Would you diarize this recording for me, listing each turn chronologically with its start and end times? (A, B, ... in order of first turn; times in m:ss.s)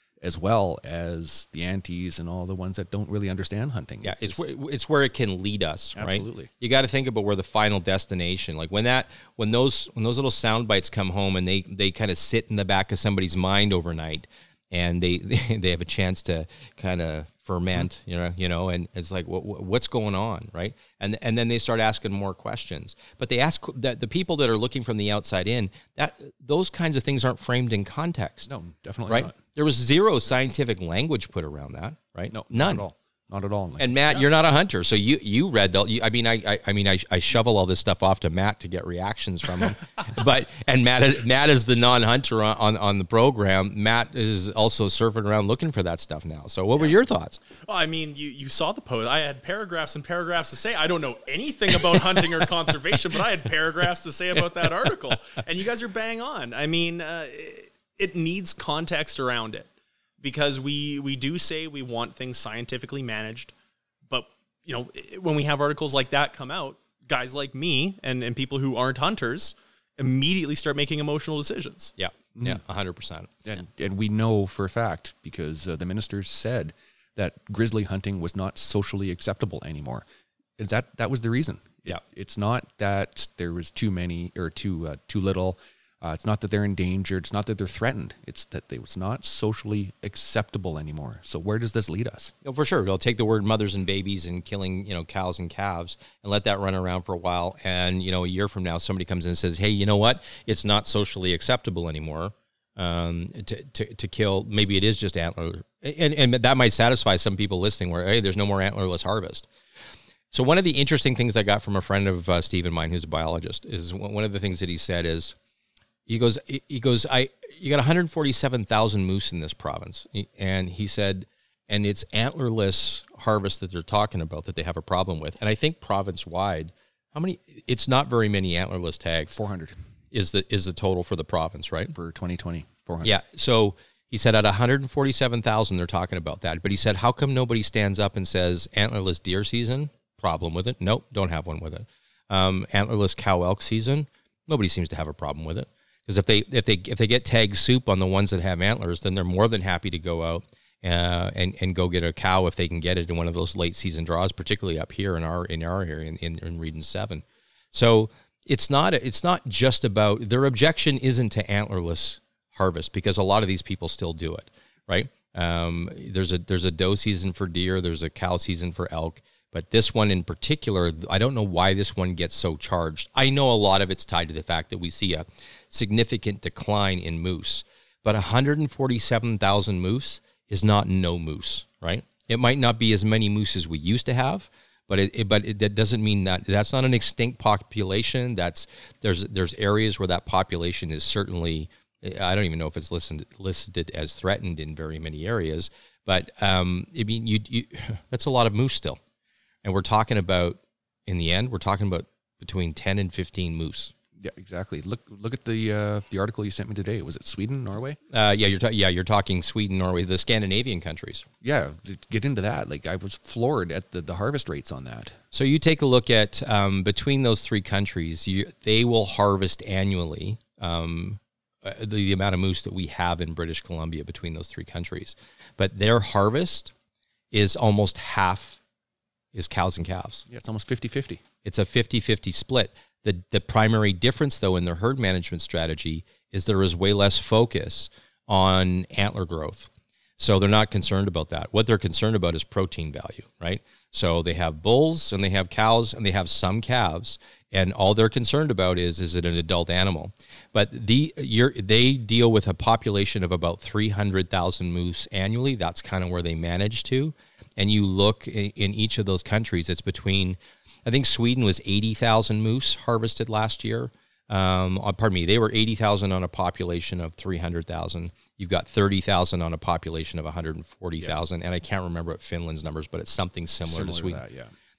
0:00.2-0:04.4 A
0:04.0-0:28.5 B
0:06.0-0:06.5 A
0:28.5-0:29.4 A
0:29.1-0:32.8 B
0:32.3-0:34.0 A
0:33.8-0:47.4 B
0:47.6-0:59.7 C
1:00.2-1:03.5 C
1:04.1-1:12.0 C
1:12.0-1:13.3 B
1:12.4-1:12.6 A
1:13.4-1:20.0 A
1:20.6-1:32.3 A
1:32.4-1:49.5 B
1:50.3-1:55.4 B
1:56.1-2:09.4 B
2:09.3-2:09.8 A
2:10.1-2:11.9 B
2:11.9-2:13.1 A
2:13.0-3:19.0 B
3:19.6-3:23.9 B
3:24.2-3:28.0 A
3:28.1-3:31.3 B
3:31.4-3:35.2 A
3:35.3-3:46.7 B
3:47.3-3:48.6 B
3:49.3-3:50.3 B
3:50.3-3:51.2 A
3:51.4-4:34.2 B
4:33.7-4:34.5 A